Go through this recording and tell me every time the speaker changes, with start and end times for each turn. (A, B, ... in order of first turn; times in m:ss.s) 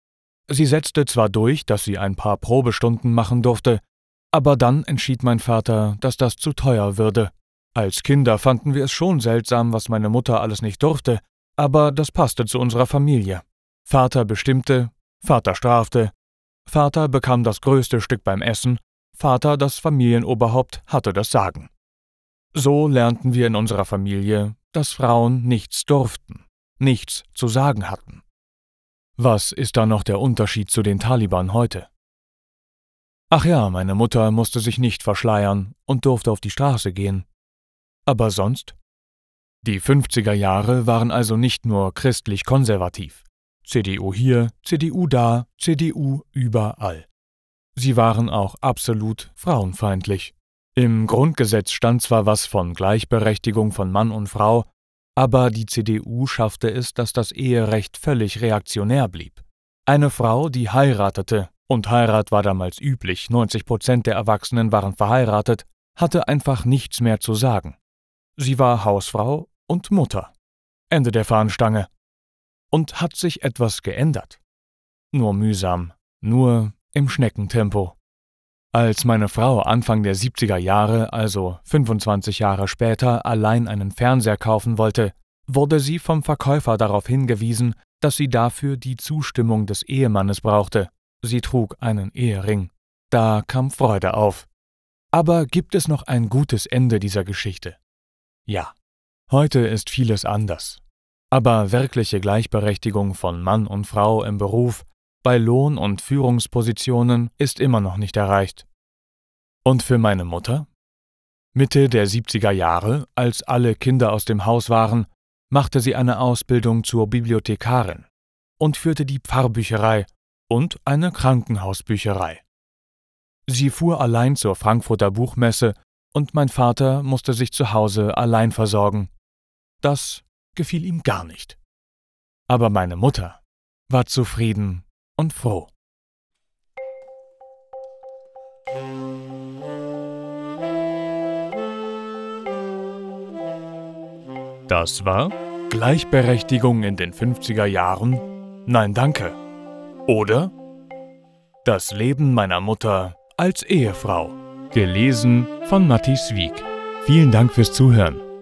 0:00.5-0:16.1 A
0:16.7-0:21.7 A
0:22.5-0:28.2 A
0:29.2-0:31.9 A
0:33.3-0:37.3 A
0:38.1-0:38.8 A
0:39.6-0:47.1 A
0:47.8-1:07.8 A
1:08.4-1:10.3 A
1:10.9-1:11.9 A
1:12.7-1:14.4 A
1:15.1-1:18.0 A
1:18.7-1:34.5 A
1:35.1-1:37.8 A
1:38.5-1:38.7 A
1:39.3-1:48.7 A
1:49.6-1:50.7 A
1:51.5-1:58.1 A
1:58.6-2:02.4 A
2:03.5-2:09.1 A
2:09.8-2:11.6 A
2:12.5-2:15.7 A
2:24.7-2:29.4 A
2:30.1-2:30.5 A
2:31.6-2:38.2 A